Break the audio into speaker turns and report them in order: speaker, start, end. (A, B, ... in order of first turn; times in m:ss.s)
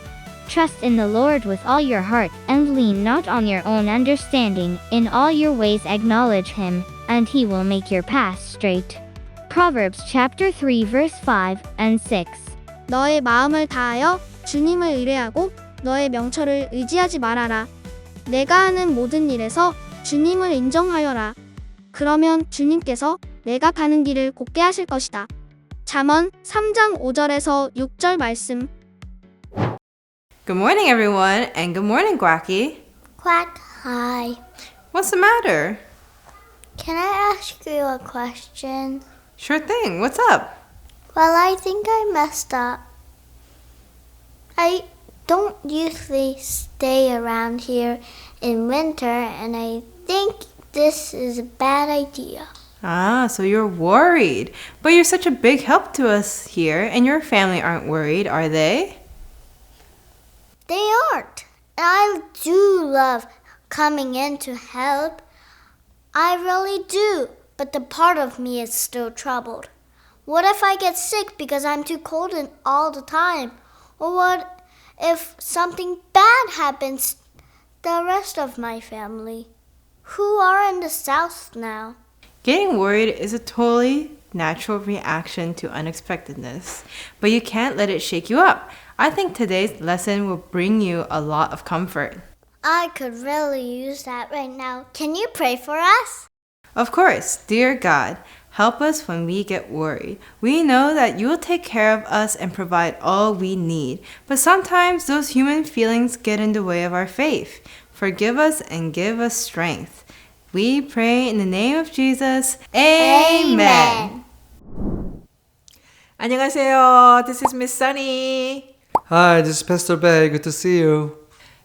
0:00.5-0:12.6 A
0:12.9-0:17.7 B
0:18.3-0:21.4 B
0:21.9-0:25.3 B
0:25.9-0:28.7 B
0:30.5-0:32.8 C
0:33.2-0:34.4 D
0:34.9-0:35.8 C
0:36.8-0:39.0 D
0:39.4-0:40.6 C
0:41.1-0:42.8 D
0:44.6-0:52.5 D
0:52.8-0:59.0 C
1:00.7-1:05.2 D
1:06.2-1:09.7 D
1:10.3-1:14.5 D
1:15.0-1:17.2 D
1:17.8-1:19.5 D
1:20.1-1:22.0 D
1:22.4-1:32.2 C
1:32.6-1:36.3 D
1:36.8-1:54.0 C
1:53.0-1:54.2 D
1:56.2-1:58.7 E
1:59.1-2:01.2 F